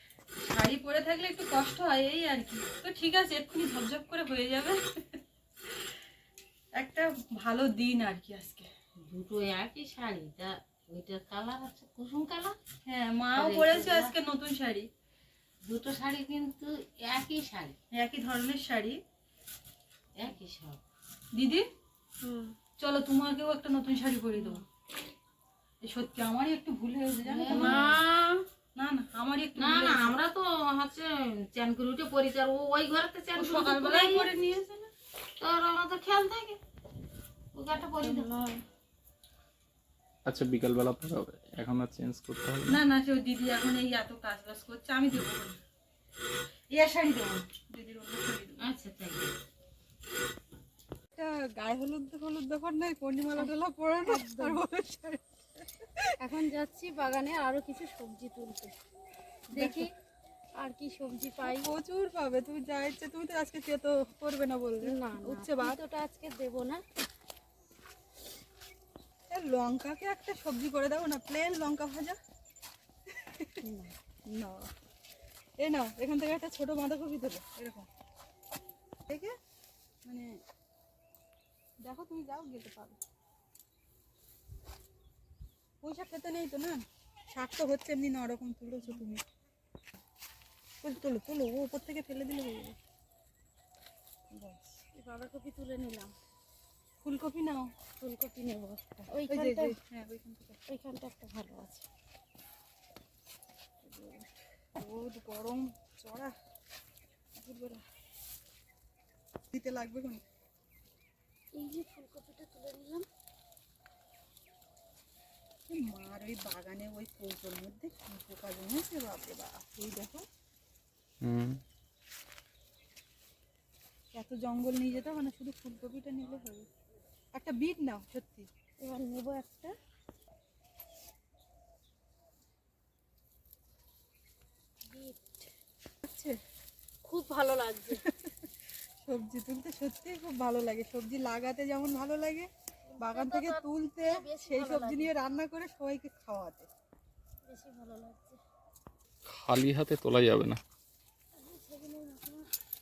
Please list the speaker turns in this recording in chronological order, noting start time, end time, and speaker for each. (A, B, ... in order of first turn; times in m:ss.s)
0:00.4-0:05.7 A
0:06.8-0:08.7 A
0:09.0-0:12.6 B
0:12.8-0:14.9 A
0:13.4-0:14.1 B
0:15.6-0:17.8 B
0:17.9-0:19.0 A
0:20.2-0:20.8 B
0:21.3-0:21.7 A
0:22.2-0:22.6 C
0:22.8-0:24.6 A
0:25.8-0:27.9 A
0:27.3-0:28.0 B
0:27.5-0:28.4 C
0:28.8-0:30.2 A
0:29.6-0:34.3 B
0:33.4-0:34.9 A
0:35.4-0:36.6 B
0:37.5-0:38.3 B
0:38.0-0:38.6 C
0:40.3-0:42.8 D
0:42.7-0:45.6 A
0:46.7-0:48.7 A
0:48.6-0:49.4 B
0:51.1-0:56.2 A
0:54.0-0:54.6 C
0:56.2-0:58.7 C
0:59.5-0:59.9 A
0:59.5-0:59.9 C
1:00.6-1:01.7 C
1:01.4-1:05.8 A
1:04.8-1:06.8 C
1:09.3-1:12.2 A
1:13.1-1:13.7 A
1:13.6-1:13.9 C
1:14.3-1:14.7 A
1:15.6-1:17.9 A
1:19.1-1:19.4 A
1:20.0-1:20.4 A
1:21.8-1:23.0 A
1:25.8-1:29.2 A
1:30.8-1:32.8 A
1:34.3-1:34.8 A
1:35.0-1:36.1 C
1:37.0-1:37.7 A
1:38.0-1:39.8 C
1:39.0-1:40.6 A
1:40.7-1:41.8 C
1:43.8-1:46.4 A
1:47.4-1:47.8 A
1:49.5-1:50.2 A
1:51.5-1:53.1 C
1:55.7-2:00.3 A
2:01.2-2:01.6 D
2:04.1-2:06.7 A
2:07.3-2:08.5 A
2:08.8-2:09.8 C
2:14.8-2:15.5 C
2:16.0-2:16.4 A
2:17.0-2:18.0 C
2:17.9-2:26.7 A
2:22.9-2:25.1 C
2:27.4-2:28.4 C
2:29.3-2:30.6 D
2:31.3-2:32.5 C